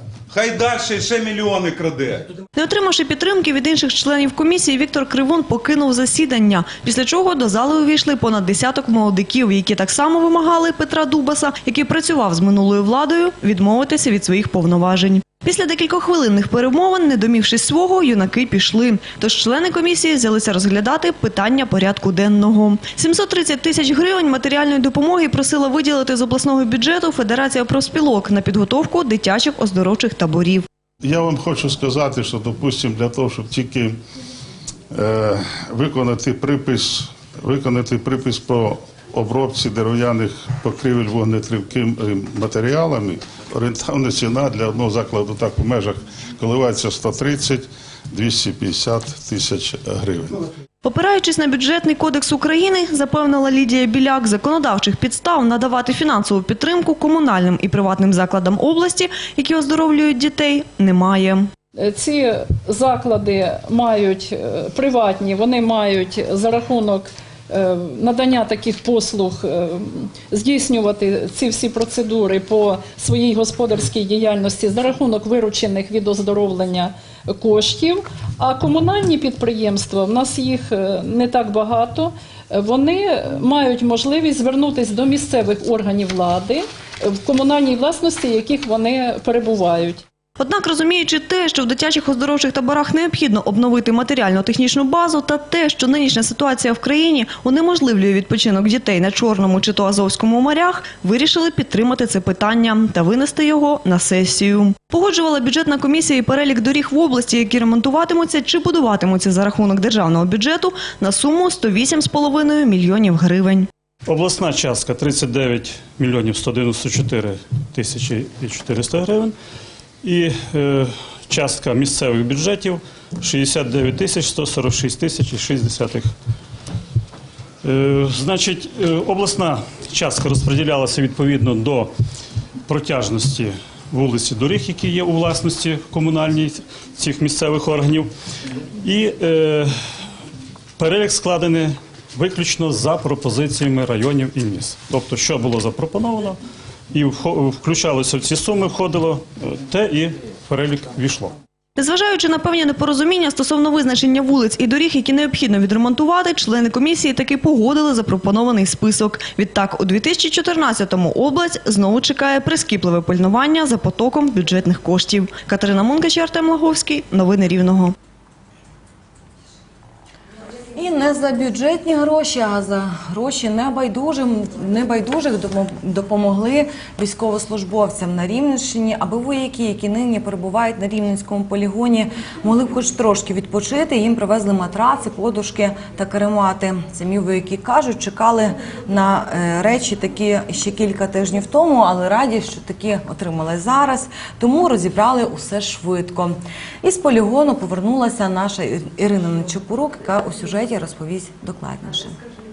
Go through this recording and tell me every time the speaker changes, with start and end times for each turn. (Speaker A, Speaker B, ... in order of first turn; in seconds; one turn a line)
Speaker A: 0.3-2.3
Speaker B: 2.6-30.6
Speaker C: 31.0-34.0
Speaker C: 34.9-50.4
Speaker B: 50.9-61.5
Speaker D: 61.8-90.0
Speaker B: 90.4-113.7
Speaker E: 114.1-119.3
Speaker E: 120.0-126.1
Speaker E: 127.6-131.9
Speaker E: 132.7-138.1
Speaker E: 138.8-139.7
Speaker E: 140.8-146.4
Speaker E: 146.9-151.3
Speaker B: 151.8-162.6
Speaker B: 163.4-164.0
Speaker B: 164.9-165.5
Speaker B: 166.0-167.7
Speaker F: 170.8-202.2